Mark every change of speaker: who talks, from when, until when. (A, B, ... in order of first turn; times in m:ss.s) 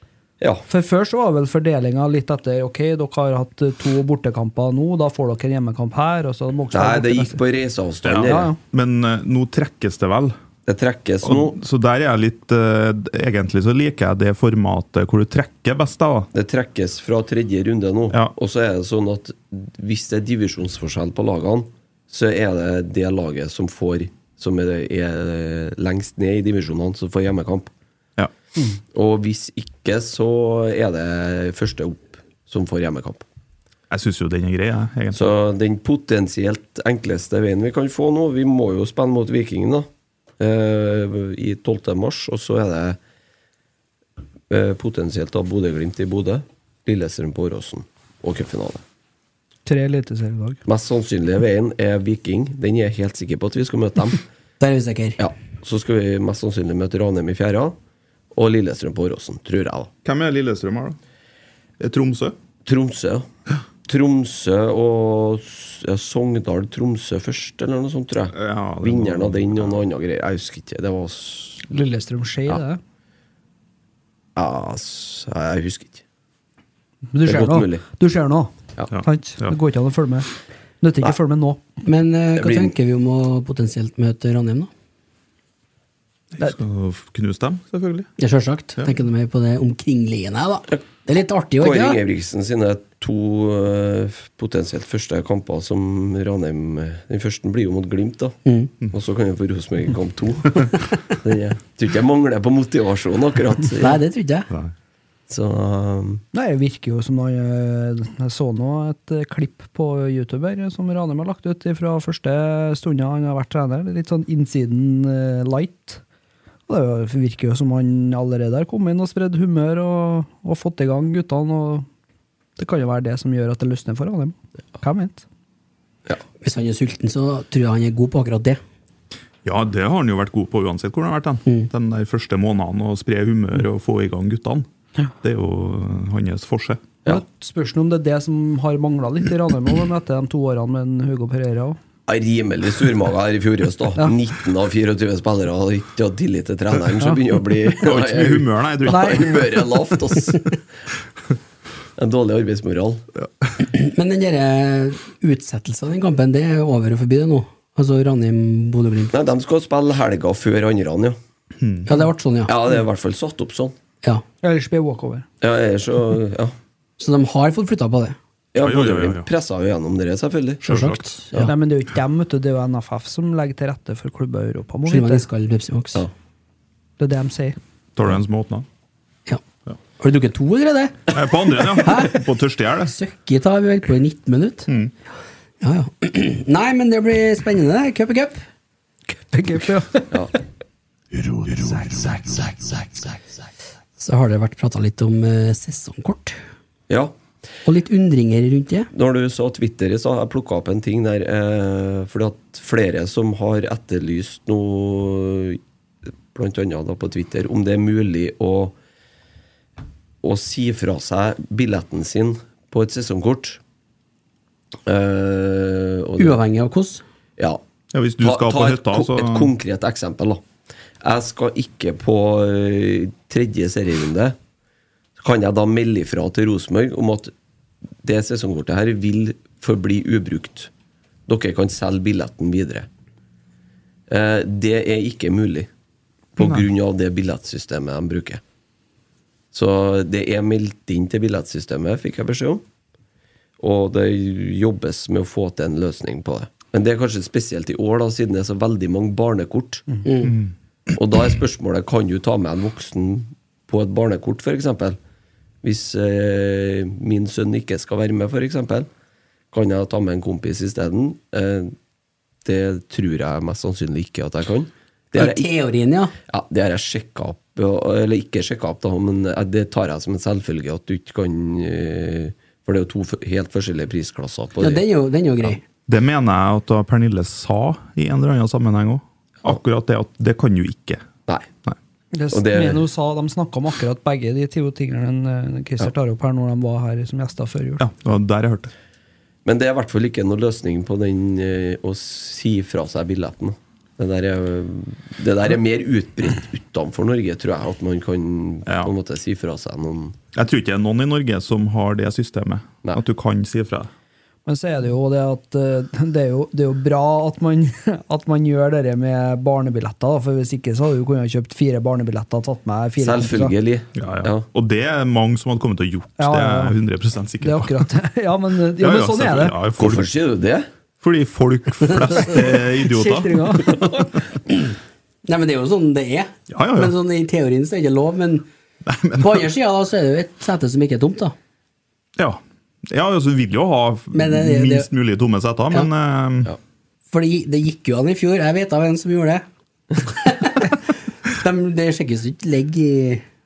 0:00.4-0:00.7 A
0:00.7-0:07.4 B
0:06.7-0:08.5 A
0:08.0-0:10.4 C
0:08.2-0:08.6 B
0:10.7-0:11.6 A
0:11.2-0:16.3 C
0:16.3-0:27.7 A
0:28.9-0:33.2 A
0:33.9-0:35.3 C
0:35.1-0:39.9 A
0:40.4-0:43.0 A
0:44.5-0:48.8 A
0:49.7-0:50.6 B
0:50.7-0:54.2 A
0:54.6-0:55.2 D
0:55.2-0:57.8 A
0:58.4-0:59.9 A
1:00.0-1:01.0 C
1:01.8-1:02.4 C
1:02.7-1:03.3 A
1:03.9-1:11.7 A
1:08.3-1:09.8 C
1:11.7-1:12.8 B
1:14.4-1:16.0 A
1:17.1-1:18.5 B
1:17.2-1:17.8 A
1:18.9-1:19.6 C
1:19.0-1:20.3 B
1:20.8-1:21.6 B
1:21.8-1:24.7 D
1:22.4-1:22.7 A
1:26.4-1:28.1 C
1:28.2-1:32.0 D
1:31.6-1:38.4 A
1:38.5-1:38.7 D
1:38.9-1:44.0 A
1:43.8-1:44.5 D
1:45.3-1:46.2 A
1:46.3-1:56.0 B
1:56.7-2:01.9 B
2:02.6-2:05.2 B
2:06.4-2:08.6 D
2:09.4-2:14.7 C
2:15.2-2:17.0 C
2:17.1-2:21.8 B
2:22.1-2:30.5 A
2:27.8-2:29.4 C
2:28.9-2:29.3 B
2:32.0-2:33.1 A
2:33.6-2:39.2 D
2:39.1-2:41.2 A
2:41.6-2:41.9 C
2:41.9-2:42.5 D
2:42.5-2:43.7 A
2:44.4-2:45.3 B
2:45.4-2:46.5 A
2:47.0-2:48.2 D
2:48.5-2:50.6 A
2:48.6-2:49.3 C
2:50.6-2:51.1 C
2:50.6-2:51.5 D
2:51.4-2:55.2 B
2:54.9-2:56.0 D
2:57.0-2:57.6 B
2:58.0-2:58.6 C
3:00.0-3:01.1 D
3:01.1-3:02.9 C
3:01.8-3:02.2 D
3:02.9-3:04.7 D
3:05.6-3:08.4 D
3:09.1-3:10.2 B
3:11.6-3:12.5 A
3:14.0-3:16.4 D
3:16.9-3:17.1 A
3:17.6-3:18.9 D
3:18.9-3:25.6 A
3:26.3-3:28.8 A
3:30.2-3:33.6 A
3:34.9-3:36.4 A
3:36.2-3:37.0 D
3:37.9-3:39.5 C
3:38.2-3:40.4 A
3:41.0-3:44.4 A
3:45.2-3:47.3 A
3:48.0-3:50.7 A
3:51.3-3:52.9 A
3:54.1-3:55.7 A
3:56.4-3:58.4 A
3:56.4-3:56.6 C
3:59.5-4:02.6 A
4:03.6-4:09.8 A
4:10.0-4:10.3 D
4:10.2-4:10.5 C
4:11.0-4:15.0 A
4:15.6-4:18.9 A
4:19.5-4:21.7 A
4:22.4-4:25.5 A
4:25.1-4:26.1 D
4:26.3-4:34.8 A
4:34.6-4:35.6 D
4:35.9-4:41.0 C
4:42.1-4:47.8 B
4:42.3-4:42.8 A
4:47.8-4:48.7 C
4:49.4-5:00.2 A
4:58.7-4:58.9 C
5:00.4-5:03.9 C
5:04.5-5:13.5 B
5:13.0-5:14.5 A
5:14.0-5:17.8 C
5:16.2-5:16.8 B
5:17.4-5:19.6 B
5:18.8-5:20.1 C
5:19.8-5:20.7 A
5:21.0-5:23.7 C
5:21.9-5:22.3 D
5:22.8-5:23.9 B
5:25.3-5:28.5 D
5:26.5-5:26.9 C
5:28.9-5:29.4 C
5:29.2-5:31.4 D
5:32.2-5:36.5 C
5:34.1-5:34.9 D
5:37.1-5:39.4 D
5:40.0-5:40.8 D
5:41.4-5:43.2 D